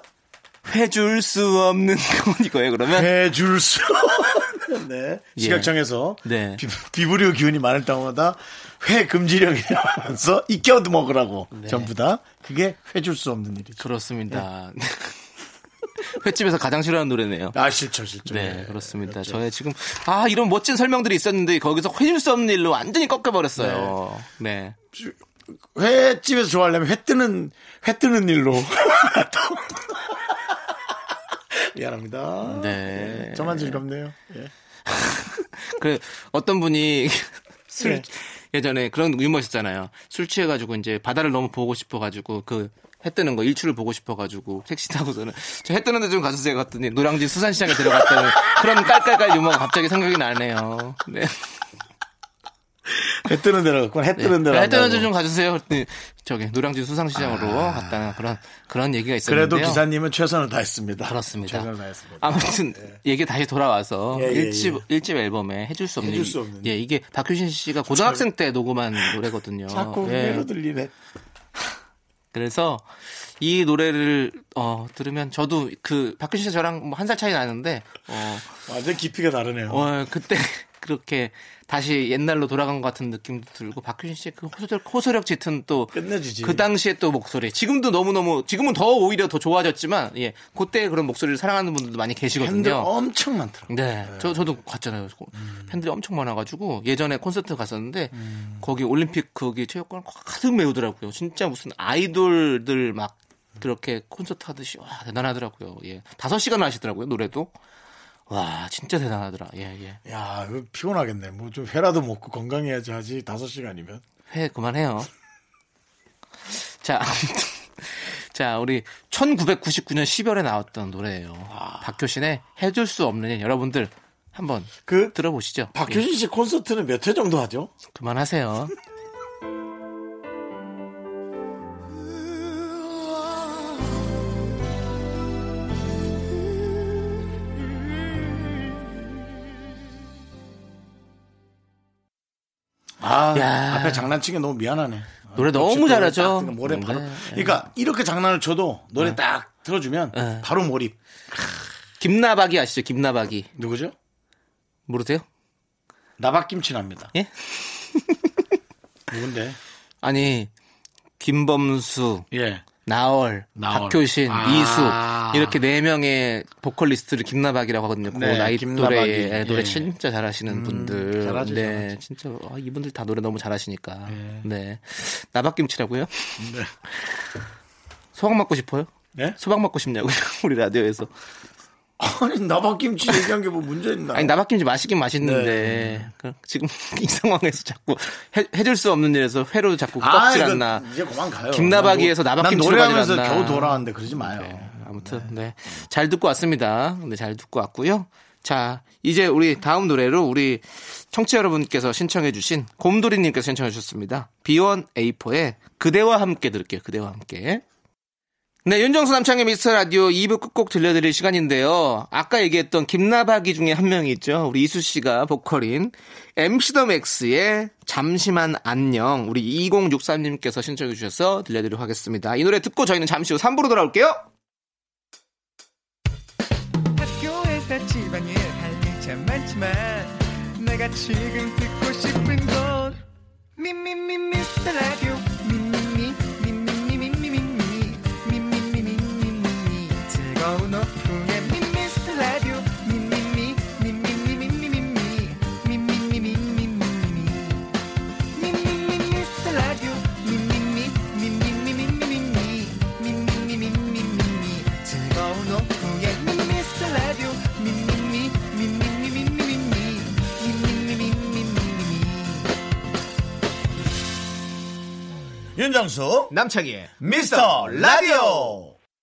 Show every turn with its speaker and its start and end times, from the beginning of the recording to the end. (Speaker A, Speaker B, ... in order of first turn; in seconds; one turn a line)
Speaker A: 0.7-3.1
Speaker B: 2.9-14.5
Speaker A: 5.4-5.7
Speaker A: 6.2-6.6
Speaker A: 11.5-11.9
Speaker A: 13.8-15.2
Speaker A: 16.0-17.6
Speaker B: 17.5-19.4
Speaker A: 18.2-24.8
Speaker B: 23.6-23.9
Speaker B: 24.9-30.6
Speaker B: 31.5-34.5
Speaker A: 32.4-33.8
Speaker A: 34.9-51.5
Speaker B: 37.8-38.1
Speaker B: 47.8-48.2
Speaker B: 52.9-55.1
Speaker A: 54.2-59.8
Speaker B: 57.1-58.2
Speaker B: 59.2-63.0
Speaker A: 61.0-70.5
Speaker B: 64.1-64.8
Speaker B: 66.0-66.8
Speaker B: 67.8-68.2
Speaker B: 69.0-70.9
Speaker A: 72.3-72.9
Speaker A: 73.4-78.5
Speaker B: 78.7-79.9
Speaker A: 79.7-92.9
Speaker B: 85.9-86.7
Speaker B: 92.4-94.5
Speaker A: 93.7-107.5
Speaker B: 95.4-95.7
Speaker B: 98.1-98.6
Speaker A: 108.3-110.0
Speaker B: 110.0-114.0
Speaker A: 114.3-115.1
Speaker A: 116.5-126.0
Speaker B: 121.5-121.9
Speaker B: 124.9-125.2
Speaker B: 125.7-127.7
Speaker A: 127.9-128.7
Speaker B: 143.0-151.0
Speaker A: 143.3-144.1
Speaker A: 145.3-147.6
Speaker A: 150.1-150.5
Speaker A: 152.0-153.5
Speaker B: 153.6-153.9
Speaker A: 154.9-155.2
Speaker B: 156.2-157.1
Speaker A: 157.1-158.3
Speaker B: 159.1-159.6
Speaker A: 160.0-160.5
Speaker A: 161.2-162.3
Speaker B: 162.3-162.7
Speaker A: 162.8-176.5
Speaker B: 163.6-165.6
Speaker B: 168.1-169.9
Speaker B: 170.5-172.0
Speaker B: 174.1-174.5
Speaker B: 176.4-176.7
Speaker A: 178.2-181.1
Speaker B: 182.0-184.3
Speaker A: 184.1-190.9
Speaker B: 185.2-186.1
Speaker B: 190.0-195.3
Speaker A: 191.5-207.6
Speaker A: 208.7-224.2
Speaker C: 227.0-233.0
Speaker C: 233.6-247.7
Speaker C: 248.3-262.5
Speaker B: 265.5-266.3
Speaker A: 266.3-268.6
Speaker B: 267.0-268.7